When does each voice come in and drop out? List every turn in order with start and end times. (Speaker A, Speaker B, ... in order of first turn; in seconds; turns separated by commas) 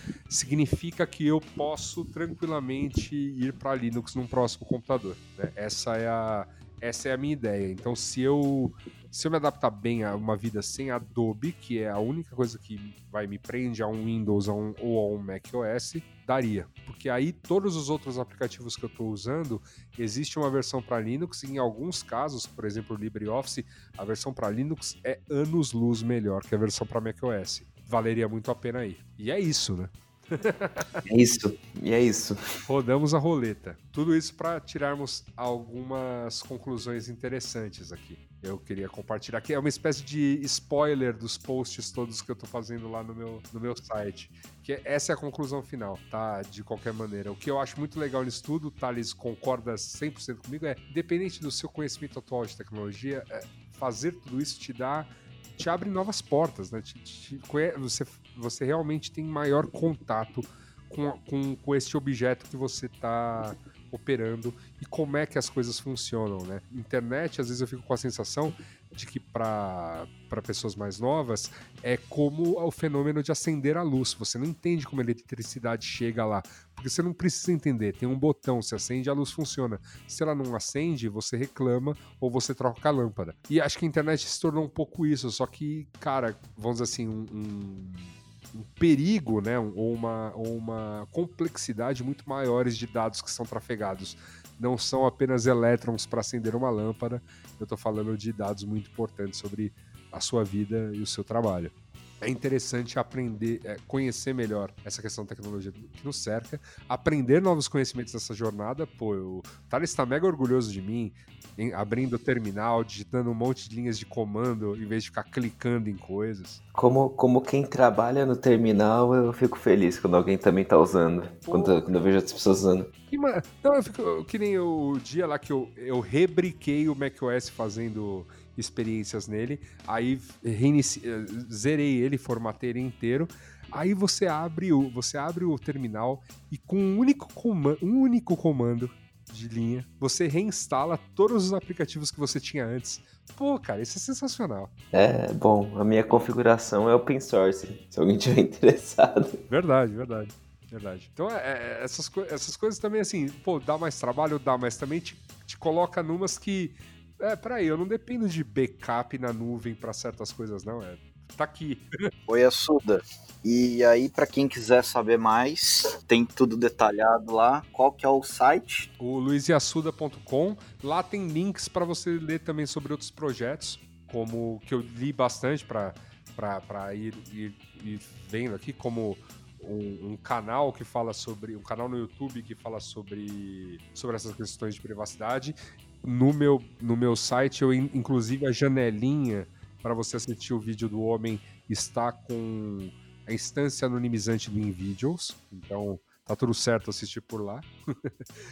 Speaker A: 0.3-31.0, Speaker B: 31.1-32.4, Speaker A: 32.6-116.6, Speaker B: 116.7-122.9, Speaker A: 121.5-122.2, Speaker A: 123.1-144.7, Speaker B: 144.9-149.4, Speaker A: 149.5-161.8, Speaker C: 162.3-168.9, Speaker A: 169.0-198.1